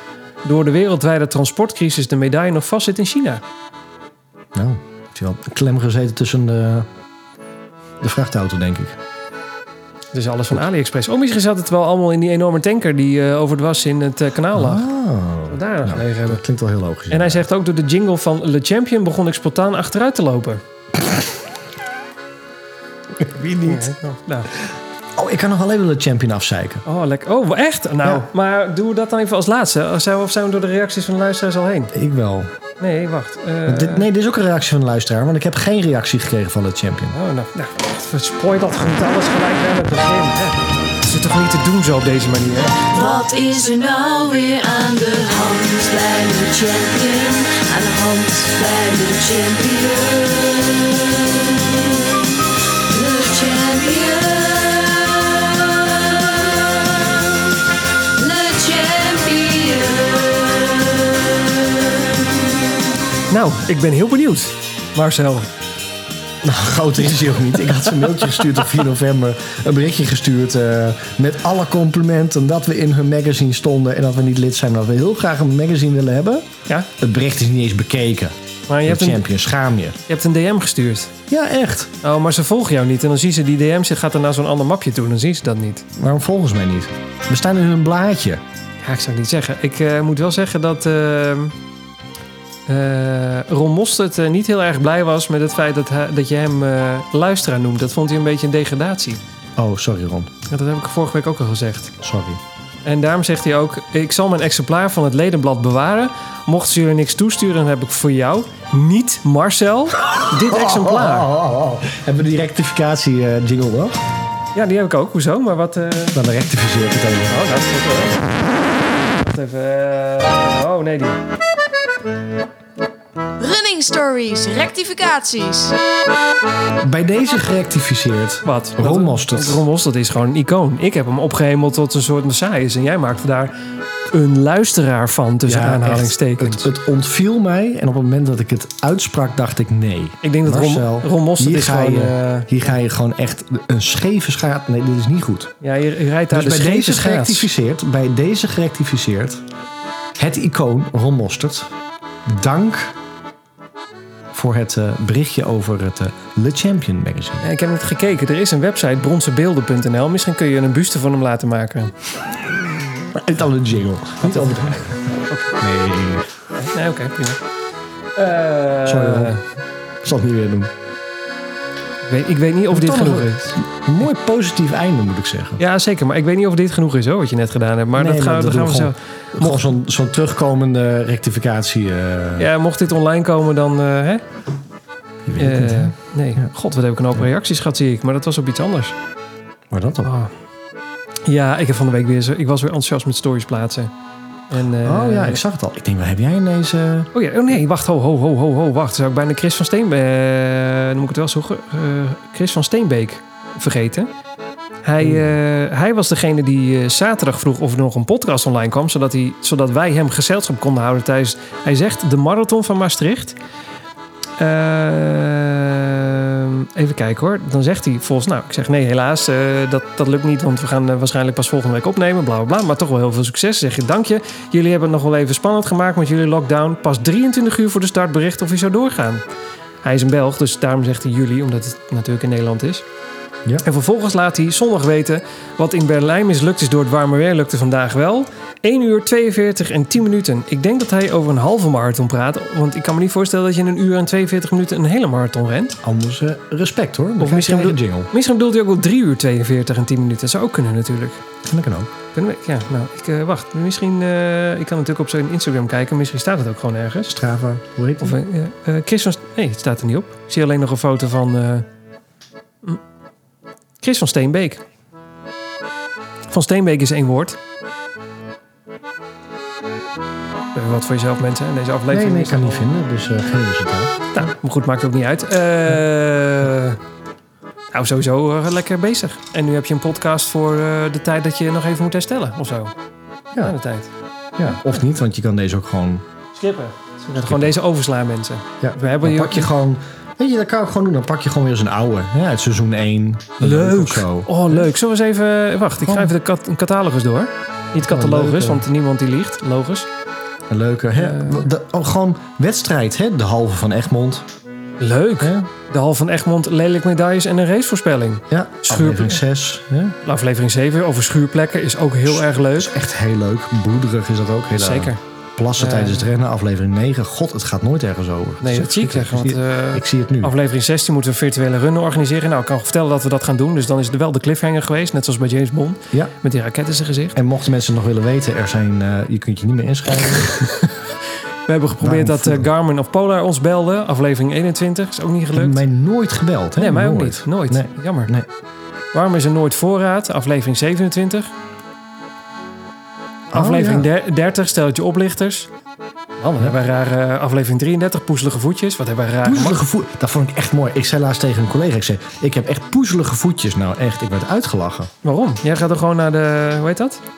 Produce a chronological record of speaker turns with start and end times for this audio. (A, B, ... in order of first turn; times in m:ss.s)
0:00.4-0:03.4 A
0:04.5-0:06.9 B
0:08.0-0:09.0 B
0:10.1-0:14.9 A
0:14.5-0:17.4 B
0:15.5-0:16.4 A
0:17.1-0:20.6 A
0:23.2-0:23.9 B
0:23.6-0:24.5 A
0:25.2-0:26.8 B
0:26.8-0:31.9 A
0:31.9-0:32.5 B
0:32.8-0:34.1 A
0:33.6-0:37.2 B
0:37.1-0:42.8 A
0:42.9-0:52.3 C
0:52.9-0:57.6 C
0:58.1-1:02.4 C
1:03.3-1:05.5 A
1:06.4-1:16.5 B
1:08.0-1:08.5 A
1:17.0-1:20.0 B
1:18.7-1:19.2 A
1:20.1-1:21.2 A
1:21.3-1:21.9 B
1:22.0-1:25.8 A
1:26.0-1:28.4 B
1:28.8-1:31.6 A
1:32.7-1:39.2 A
1:39.6-1:40.3 B
1:40.5-1:41.9 A
1:42.0-1:42.4 B
1:42.8-1:51.3 A
1:50.0-1:54.0 B
1:54.5-1:56.2 A
1:56.1-1:57.4 B
1:57.3-1:58.4 A
1:59.2-2:01.2 A
2:03.4-2:05.8 C
2:06.8-2:09.6 B
2:08.4-2:13.5 A
2:14.1-2:16.7 A
2:15.4-2:25.5 B
2:20.2-2:22.5 A
2:25.6-2:27.5 A
2:26.3-2:29.4 B
2:30.2-2:31.7 B
2:32.2-2:32.9 B
2:34.3-2:37.4 B
2:37.4-2:41.9 A
2:43.1-2:46.3 B
2:44.2-2:44.6 A
2:45.3-2:45.6 A
2:46.6-2:47.4 A
2:48.2-2:49.4 A
2:48.8-2:49.3 B
2:50.0-2:50.7 B
2:52.1-2:53.6 A
2:52.7-2:55.6 B
2:55.6-2:59.6 A
2:57.9-3:02.5 B
3:02.4-3:04.2 A
3:05.2-3:06.5 B
3:05.4-3:08.9 A
3:09.7-3:10.1 B
3:10.0-3:10.3 A
3:11.2-3:13.9 A
3:14.5-3:15.4 A
3:14.8-3:17.1 B
3:17.1-3:24.1 A
3:24.8-3:33.4 A
3:25.0-3:25.3 B
3:34.4-3:49.2 A
3:49.8-3:52.8 A
3:53.6-4:05.8 A
4:05.8-4:08.1 B
4:07.2-4:11.2 A
4:11.4-4:11.9 B
4:12.1-4:17.1 A
4:17.1-4:18.2 B
4:18.0-4:21.7 A
4:23.8-4:24.6 A
4:26.3-4:27.4 A
4:30.5-4:32.7 A
4:31.9-4:34.3 B
4:34.1-4:36.8 A
4:37.7-4:42.7 A
4:43.4-4:43.9 A
4:44.4-4:46.0 B
4:44.4-4:44.8 A
4:46.3-4:49.5 A
4:47.2-4:47.5 B
4:48.6-4:54.6 B
4:53.4-4:59.9 A
4:55.8-4:56.1 B
4:57.8-4:58.6 B
5:00.5-5:04.2 B
5:01.0-5:01.4 A
5:04.8-5:09.2 A
5:08.3-5:10.0 B
5:10.0-5:12.7 A
5:12.1-5:20.3 B
5:14.5-5:15.0 A
5:15.6-5:16.1 A
5:18.4-5:27.2 A
5:27.1-5:30.5 B
5:30.0-5:30.8 A
5:31.5-5:35.6 A
5:31.8-5:32.5 B
5:35.3-5:38.3 B
5:36.6-5:38.1 A
5:38.9-5:41.3 A
5:43.3-5:43.9 B
5:43.3-5:45.5 A
5:46.2-5:49.6 A
5:49.2-5:54.9 B
5:55.0-5:57.0 A